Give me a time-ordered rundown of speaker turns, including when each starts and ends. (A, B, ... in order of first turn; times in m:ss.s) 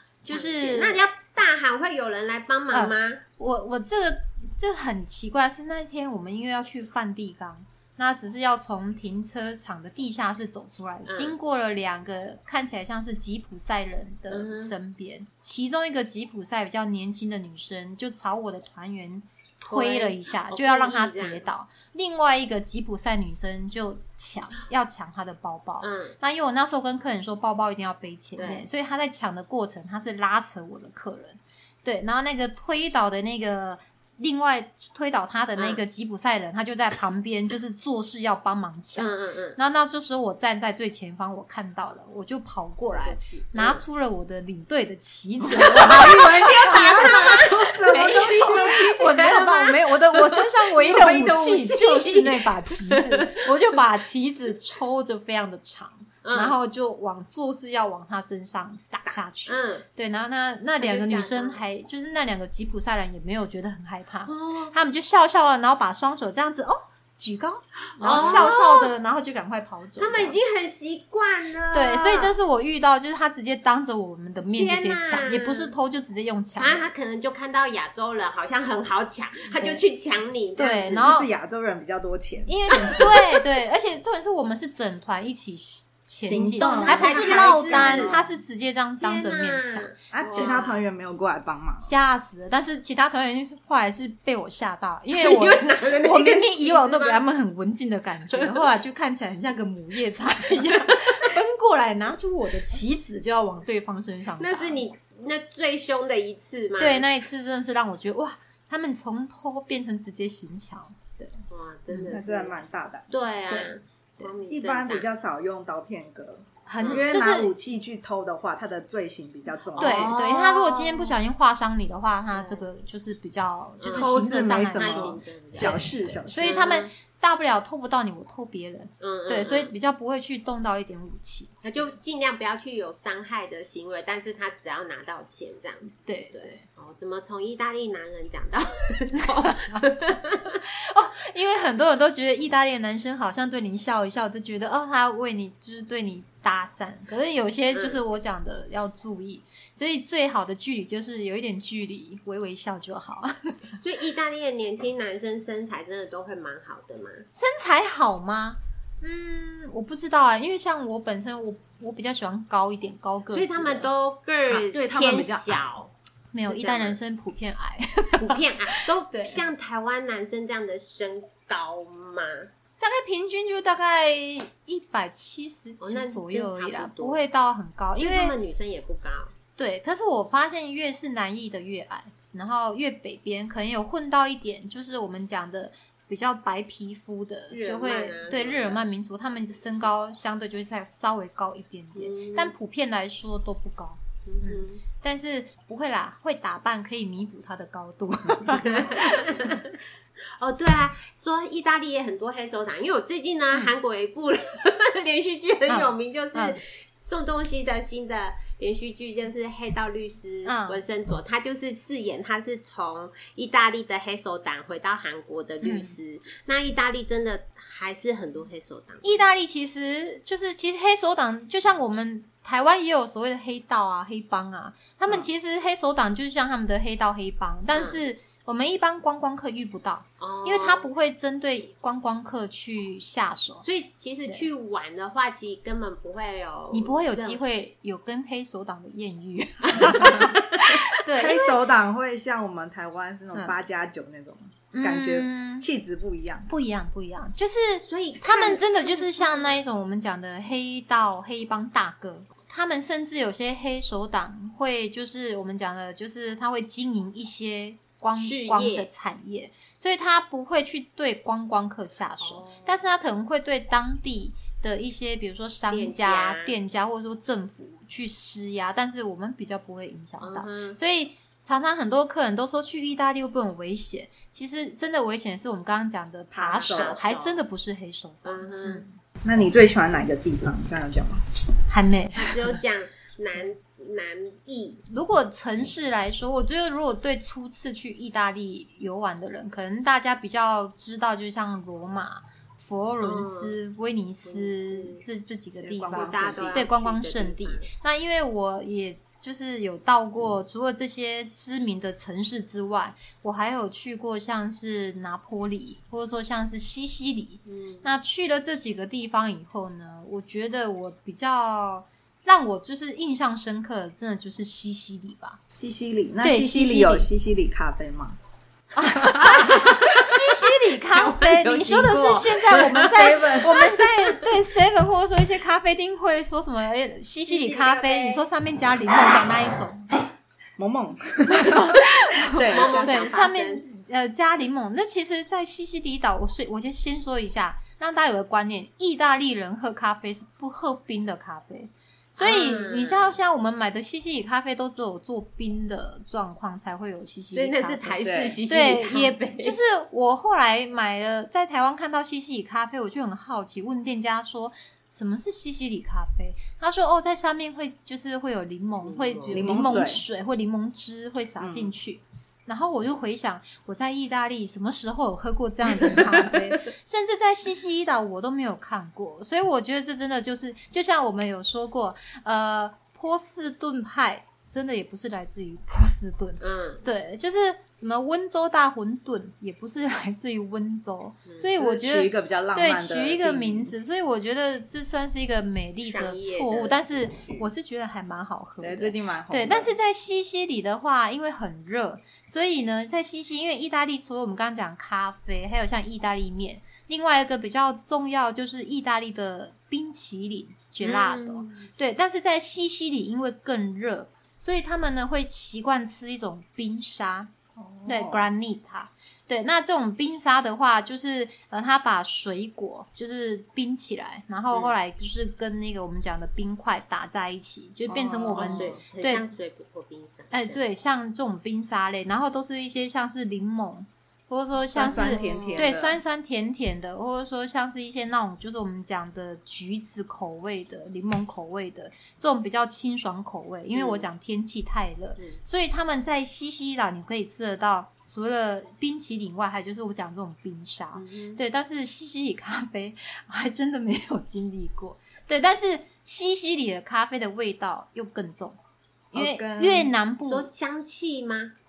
0:00.2-0:01.0 A
0:00.3-0:03.2 B
0:02.7-1:10.4 A
0:11.1-0:11.4 B
0:14.3-0:14.7 B
0:19.7-0:21.5 B
0:25.8-0:26.2 B
0:28.4-0:28.7 B
0:35.6-0:35.8 B
0:39.0-0:39.6 B
0:42.9-0:43.8 B
0:45.5-0:49.1 C
0:45.7-0:53.5 B
0:56.2-0:56.6 B
0:59.1-0:59.9 B
1:00.8-1:01.6 B
1:04.3-1:04.7 B
1:08.0-1:08.9 B
1:08.1-1:08.5 C
1:10.0-1:12.4 B
1:11.7-1:16.9 A
1:14.6-1:15.7 B
1:16.6-1:21.1 B
1:19.5-1:19.8 A
1:20.6-1:21.3 A
1:20.8-1:23.2 C
1:22.5-1:30.6 A
1:26.2-1:28.2 C
1:26.2-1:28.3 B
1:29.0-1:30.8 B
1:30.1-1:31.9 C
1:31.8-1:44.9 A
1:35.1-1:37.2 B
1:38.3-1:38.6 B
1:44.4-1:47.1 B
1:46.8-1:52.2 A
1:51.5-1:52.6 B
1:52.1-1:53.1 C
1:53.1-1:55.1 B
1:53.5-1:54.3 A
1:54.5-2:00.1 C
1:56.7-1:57.5 A
1:59.7-2:01.2 B
1:59.8-2:11.6 A
2:02.3-2:02.6 B
2:03.8-2:04.2 B
2:03.9-2:06.6 C
2:04.7-2:06.9 B
2:09.0-2:09.7 B
2:11.6-2:20.6 B
2:16.1-2:16.7 A
2:19.4-2:19.8 A
2:20.6-2:33.6 A
2:27.7-2:28.0 B
2:33.8-2:37.3 B
2:37.3-2:43.9 A
2:43.3-2:45.9 B
2:44.5-2:45.7 C
2:46.3-2:49.5 A
2:46.4-2:47.0 B
2:48.2-2:52.5 B
2:52.8-2:58.4 A
2:55.8-2:57.2 B
2:58.0-2:59.4 B
2:59.6-3:19.6 A
3:07.5-3:08.8 B
3:12.0-3:12.5 B
3:14.3-3:14.8 B
3:18.5-3:19.8 B
3:20.4-3:39.2 B
3:25.7-3:26.6 A
3:30.4-3:30.8 A
3:35.6-3:36.0 A
3:39.0-3:53.6 A
3:47.7-3:48.0 B
3:50.2-3:50.9 B
3:53.6-3:57.4 B
3:56.7-4:01.5 A
3:59.8-4:00.3 B
4:01.1-4:06.5 C
4:04.7-4:05.7 A
4:06.5-4:39.0 A
4:07.8-4:09.6 B
4:18.2-4:18.9 B
4:22.2-4:22.8 B
4:25.7-4:26.6 B
4:30.2-4:30.8 B
4:36.3-4:37.0 C
4:36.5-4:37.4 B
4:38.2-4:38.8 B
4:39.2-4:41.2 C
4:41.7-4:42.5 A
4:42.2-4:44.8 B
4:44.9-5:15.4 A
4:53.0-4:53.6 B
4:54.2-4:55.0 B
4:55.6-4:56.7 C
4:55.9-4:57.7 B
5:07.5-5:07.9 B
5:15.5-5:18.2 C
5:16.2-5:17.1 A
5:18.8-5:30.0 A
5:19.1-5:19.7 C
5:20.9-5:23.2 B
5:22.6-5:23.6 C
5:23.8-5:24.2 B
5:27.3-5:28.2 B
5:30.6-5:33.1 C
5:31.3-6:47.3 A
5:32.4-5:33.6 B
5:42.2-5:43.2 B
5:47.3-5:49.6 B
5:48.0-5:48.4 C
5:58.8-5:59.6 B
5:59.3-6:00.0 C
6:01.4-6:01.7 C
6:05.9-6:06.4 B
6:16.4-6:16.8 B
6:21.6-6:23.7 C
6:25.9-6:27.4 B
6:28.6-6:29.8 C
6:40.8-6:41.7 B
6:47.6-6:48.3 C
6:47.9-6:59.3 A
6:57.9-6:58.8 C
6:58.2-7:00.6 B
7:00.3-7:28.6 A
7:04.7-7:06.0 C
7:04.8-7:05.7 B
7:13.7-7:14.1 B
7:21.0-7:21.4 B
7:29.1-7:30.5 A
7:29.1-7:29.9 C
7:30.3-7:31.5 B